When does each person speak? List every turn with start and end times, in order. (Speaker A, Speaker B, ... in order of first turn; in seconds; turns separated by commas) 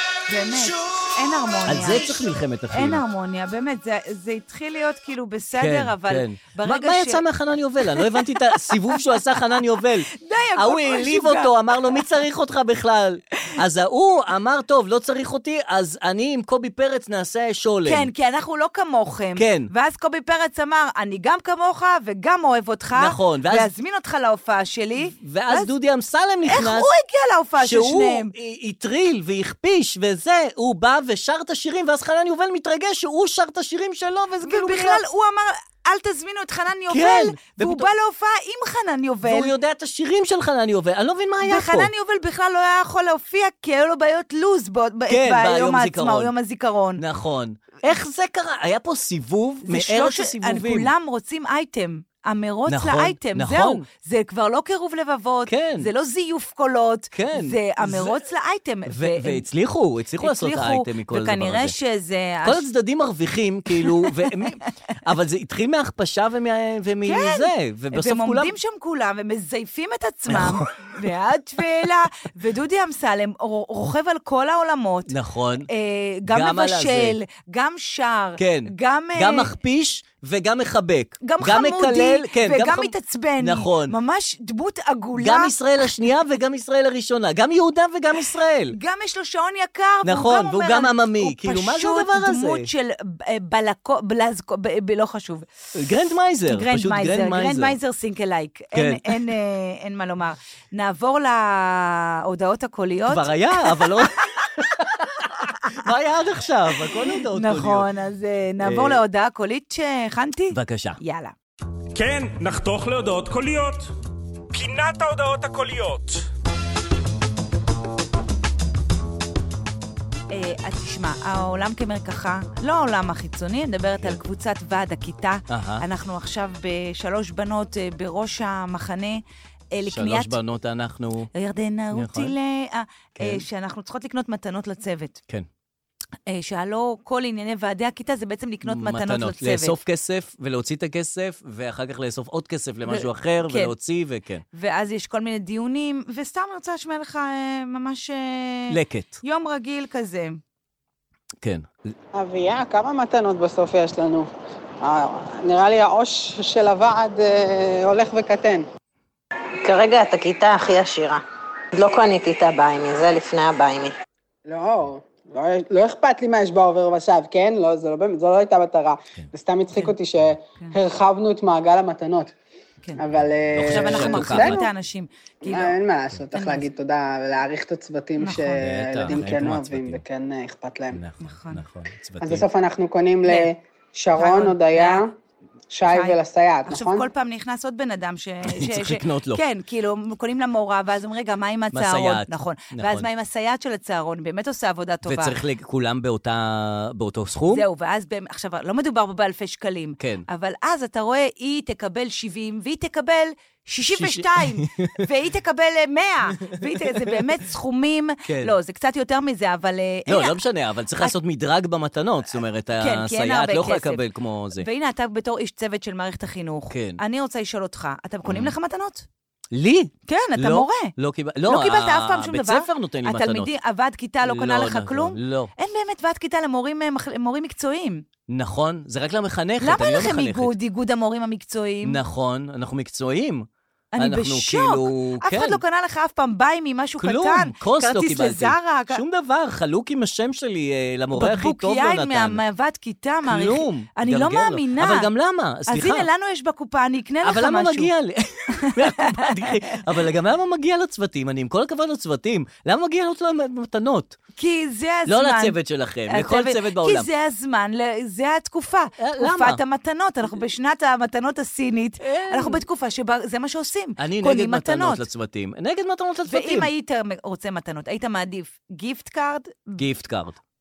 Speaker A: 0.3-2.2, Speaker B: 1.6-3.0, Speaker A: 2.7-7.2, Speaker B: 5.6-18.1, Speaker A: 7.9-9.2, Speaker A: 10.2-11.9, Speaker A: 17.8-25.7, Speaker B: 19.4-19.7, Speaker B: 22.9-23.7, Speaker B: 25.0-26.9, Speaker A: 26.4-28.3, Speaker B: 27.6-35.0, Speaker A: 34.4-39.5, Speaker B: 36.9-37.9, Speaker B: 39.2-41.9, Speaker A: 41.4-47.0, Speaker B: 45.1-46.3, Speaker B: 47.0-50.9, Speaker A: 49.6-59.5, Speaker B: 52.7-53.9, Speaker B: 55.5-55.9, Speaker B: 57.1-58.2, Speaker B: 58.9-61.7, Speaker A: 60.2-62.6, Speaker B: 62.5-68.5, Speaker A: 63.7-64.4, Speaker A: 67.0-75.1, Speaker B: 70.3-70.9, Speaker B: 75.1-75.7, Speaker A: 75.7-79.5, Speaker B: 76.3-77.2, Speaker B: 78.4-84.0, Speaker A: 81.2-85.5, Speaker B: 85.1-88.8, Speaker A: 88.7-95.5, Speaker B: 90.0-92.7, Speaker B: 95.7-97.8, Speaker A: 96.5-104.0, Speaker B: 98.7-99.2, Speaker B: 103.1-107.9, Speaker A: 106.9-111.3, Speaker B: 108.6-109.0, Speaker B: 110.5-111.0, Speaker C: 111.9-113.9, Speaker C: 114.5-116.3, Speaker A: 120.3-129.2, Speaker B: 125.5-125.8, Speaker A: 129.7-130.4, Speaker B: 129.9-131.3, Speaker A: 131.3-135.2, Speaker B: 131.9-132.3, Speaker B: 133.2-133.4, Speaker A: 136.3-139.8, Speaker B: 138.6-144.4, Speaker A: 142.9-143.7, Speaker A: 144.5-150.4, Speaker B: 148.7-149.2, Speaker B: 151.4-151.9, Speaker D: 152.1-154.3, Speaker D: 154.8-158.7, Speaker E: 159.6-161.2, Speaker E: 161.7-163.9, Speaker D: 164.4-172.3, Speaker A: 169.7-169.9, Speaker D: 173.0-174.7, Speaker B: 173.5-174.7, Speaker A: 173.6-175.8, Speaker D: 175.4-181.0, Speaker A: 176.3-176.7, Speaker A: 178.2-179.3, Speaker B: 178.6-180.0, Speaker B: 180.9-182.4, Speaker A: 181.2-181.6, Speaker D: 182.2-185.1, Speaker A: 184.2-185.0, Speaker D: 185.7-187.1, Speaker A: 185.9-195.4, Speaker B: 188.4-189.4, Speaker B: 191.7-193.1, Speaker B: 195.1-197.6, Speaker A: 197.5-210.4, Speaker B: 200.0-200.3, Speaker B: 203.9-205.0, Speaker B: 206.4-207.2, Speaker B: 208.2-208.6, Speaker B: 210.1-214.7, Speaker A: 212.8-214.0, Speaker A: 214.5-219.1, Speaker B: 216.7-217.0, Speaker B: 218.2-218.6, Speaker B: 219.5-223.5, Speaker A: 220.1-220.9, Speaker A: 221.4-228.1, Speaker B: 224.2-225.5, Speaker B: 228.3-230.6, Speaker A: 229.6-232.0, Speaker B: 231.8-233.4, Speaker A: 233.9-239.0, Speaker B: 234.0-235.6, Speaker B: 237.0-242.4, Speaker A: 241.1-245.1, Speaker B: 243.2-246.1, Speaker A: 245.7-247.9, Speaker B: 247.2-254.2, Speaker A: 248.6-249.8, Speaker A: 254.4-265.1, Speaker B: 255.1-257.1, Speaker B: 259.0-259.6, Speaker B: 262.0-262.6, Speaker B: 264.0-266.7, Speaker A: 266.3-269.8, Speaker B: 269.8-270.4